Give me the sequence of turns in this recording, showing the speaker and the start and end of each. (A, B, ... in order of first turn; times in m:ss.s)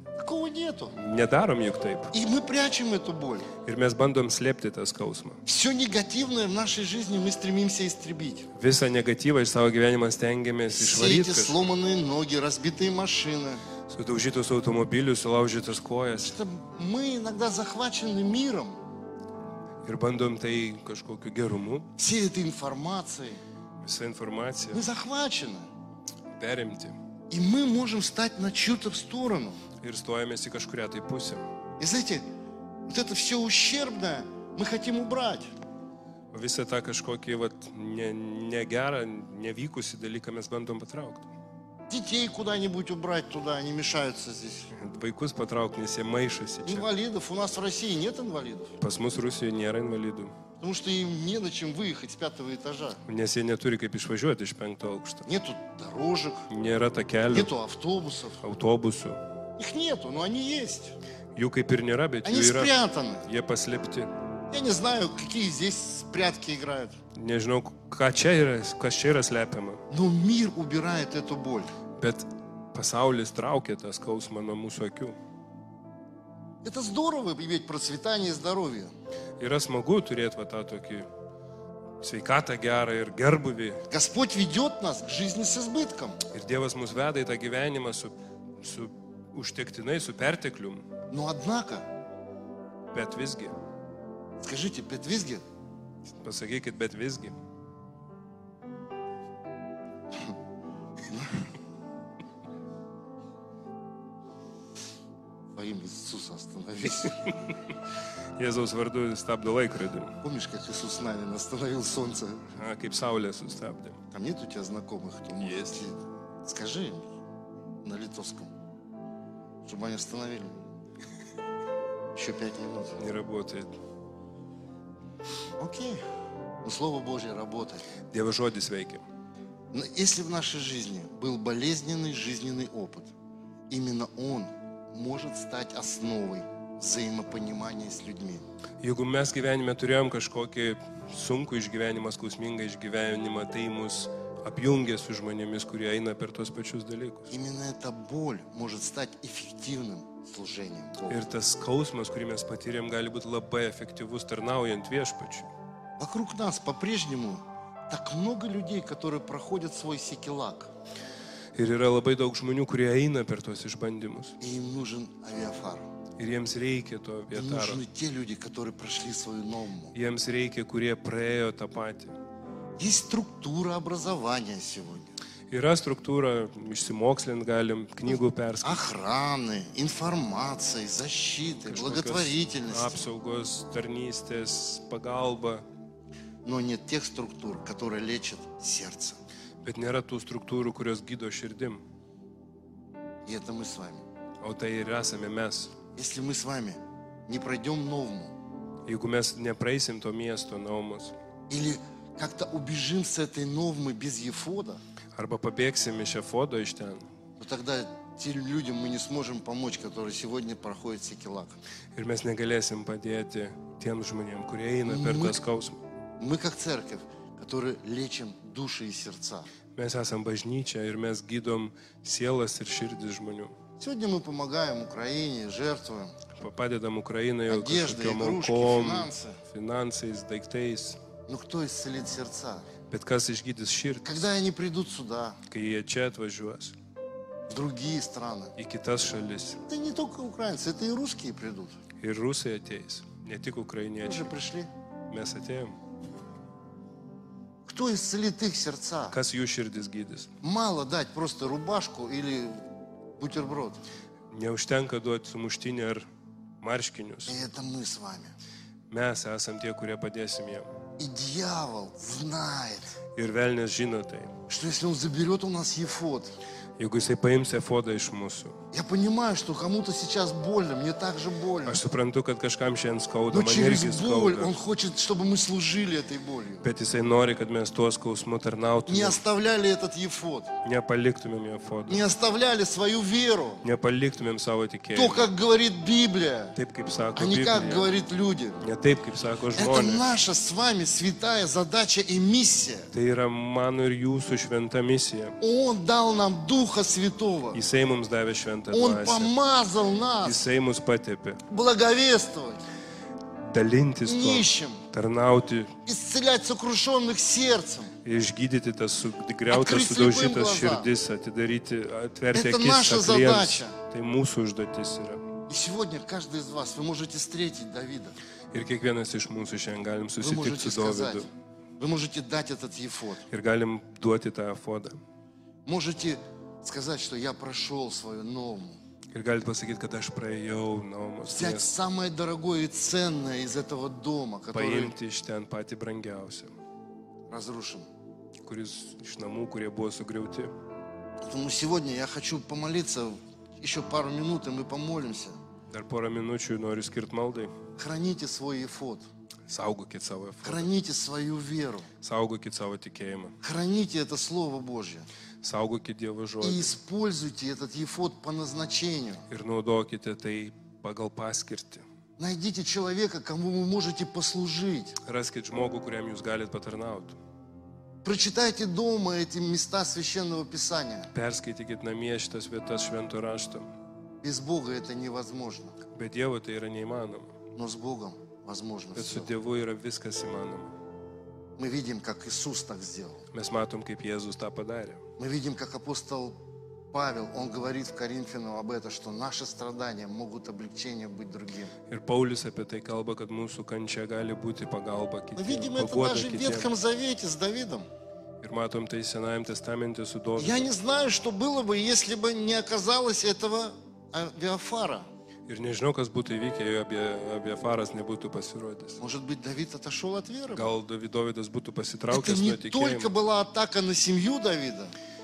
0:00.2-0:00.9 A
0:00.9-0:02.1 B
0:02.1-0:03.5 A
0:03.6-0:05.4 B
0:05.4-0:08.5 A
0:08.5-0:11.6 B
0:10.7-0:13.6 A
0:13.9-0:16.4 B
0:16.2-0:18.8 A
0:19.8-0:21.9 B
0:22.0-0:23.4 A
0:23.8-0:24.8 B
0:24.7-0:25.7 A
0:26.4-0:27.0 B
0:27.3-0:29.6 A
0:29.8-0:31.4 B
0:31.8-0:32.2 A
0:32.9-0:35.5 A
0:36.3-0:41.3 B
0:41.9-0:44.7 A
0:44.7-0:46.9 B
0:46.6-0:48.8 A
0:48.8-0:50.3 B
0:50.6-0:53.0 A
0:53.0-0:55.2 B
0:55.2-0:56.5 A
0:56.5-0:57.5 B
0:57.3-0:58.4 A
0:58.4-0:59.2 B
0:59.6-1:01.0 A
1:01.3-1:02.7 B
1:02.2-1:03.2 A
1:03.2-1:04.1 B
1:04.5-1:07.0 A
1:07.1-1:09.8 B
1:09.9-1:11.7 A
1:12.0-1:15.2 B
1:16.6-1:18.9 A
1:19.4-1:21.1 B
1:22.0-1:23.8 B
1:23.9-1:26.2 A
1:26.3-1:30.8 B
1:31.1-1:31.9 A
1:32.9-1:33.6 B
1:34.4-1:35.4 A
1:36.2-1:37.4 B
1:41.1-1:41.5 A
1:45.6-1:47.4 A
1:48.4-1:50.2 B
1:50.2-1:52.4 A
1:52.5-1:54.0 B
1:54.1-1:57.1 A
1:55.4-1:55.8 B
1:57.8-1:58.5 A
1:59.6-2:00.7 A
2:02.1-2:03.0 A
2:03.0-2:03.7 B
2:05.6-2:06.0 A
2:06.6-2:07.8 A
2:08.1-2:09.0 B
2:09.7-2:13.1 A
2:13.7-2:18.4 A
2:18.8-2:27.3 B
2:27.3-2:31.2 A
2:31.1-2:35.5 B
2:36.0-2:40.7 A
2:41.5-2:44.4 B
2:44.4-2:45.9 A
2:46.2-2:47.8 B
2:47.3-2:49.9 A
2:49.9-2:52.1 B
2:52.8-2:55.1 A
2:55.5-2:58.8 B
2:58.1-3:03.1 A
3:01.6-3:05.6 B
3:06.4-3:09.2 A
3:09.6-3:11.8 B
3:13.2-3:14.0 A
3:14.4-3:15.7 B
3:16.0-3:18.4 A
3:18.8-3:21.1 B
3:21.5-3:24.8 A
3:25.2-3:27.1 B
3:27.4-3:31.6 A
3:31.9-3:35.8 B
3:34.8-3:35.4 A
3:36.2-3:39.5 A
3:39.7-3:43.6 B
3:43.8-3:46.2 A
3:46.3-3:51.0 B
3:47.5-3:49.4 A
3:51.3-3:52.7 A
3:52.9-3:54.2 B
3:54.0-3:55.4 A
3:55.5-3:56.8 B
3:57.5-3:58.5 A
3:58.6-3:59.6 B
3:59.7-4:01.8 A
4:02.0-4:04.3 B
4:04.0-4:04.7 A
4:05.1-4:05.8 B
4:07.7-4:09.2 A
4:09.1-4:10.3 B
4:10.4-4:12.6 A
4:13.2-4:13.8 A
4:14.3-4:16.1 B
4:16.6-4:17.4 B
4:17.3-4:18.3 A
4:18.9-4:20.7 B
4:21.0-4:23.0 A
4:23.1-4:24.3 B
4:24.5-4:26.3 A
4:26.8-4:28.6 B
4:28.7-4:31.8 A
4:31.6-4:34.6 B
4:33.3-4:36.6 A
4:36.6-4:39.2 B
4:38.9-4:40.5 A
4:40.6-4:42.0 B
4:41.9-4:43.6 A
4:43.6-4:45.3 B
4:44.9-4:46.6 A
4:46.5-4:47.9 B
4:47.2-4:48.6 A
4:48.6-4:50.1 B
4:49.6-4:52.9 A
4:52.9-4:55.4 B
4:55.4-4:57.6 A
4:57.5-4:59.3 B
4:58.7-5:00.4 A
5:00.2-5:01.4 B
5:01.5-5:02.6 A
5:03.4-5:05.7 B
5:04.0-5:04.8 A
5:05.8-5:07.9 A
5:08.0-5:15.2 B
5:09.5-5:10.9 A
5:12.3-5:13.8 A
5:15.5-5:18.2 A
5:18.5-5:21.3 B
5:20.2-5:21.3 A
5:21.8-5:23.2 A
5:23.3-5:25.0 B
5:25.6-5:28.8 A
5:29.1-5:31.7 B
5:31.2-5:34.9 A
5:34.5-5:36.5 B
5:37.3-5:37.9 A
5:38.4-5:40.5 B
5:41.2-5:45.4 A
5:45.7-5:47.5 B
5:47.8-5:49.1 A
5:49.5-5:50.7 B
5:50.4-5:51.9 A
5:52.0-5:53.3 B
5:53.4-5:55.1 A
5:55.4-5:56.8 B
5:56.4-5:59.2 A
5:59.3-6:01.8 B
6:02.2-6:05.0 A
6:05.0-6:07.2 B
6:08.0-6:11.1 A
6:11.1-6:13.7 B
6:14.2-6:15.7 A
6:15.9-6:17.3 B
6:17.6-6:19.3 A
6:18.9-6:20.7 B
6:21.6-6:23.2 A
6:23.3-6:25.0 B
6:25.2-6:26.4 A
6:26.9-6:31.7 A
6:31.9-6:36.7 B
6:35.4-6:37.8 A
6:38.4-6:40.7 B
6:40.4-6:45.1 A
6:45.5-6:49.0 B
6:49.0-6:50.7 A
6:50.5-6:53.1 B
6:52.1-6:54.9 A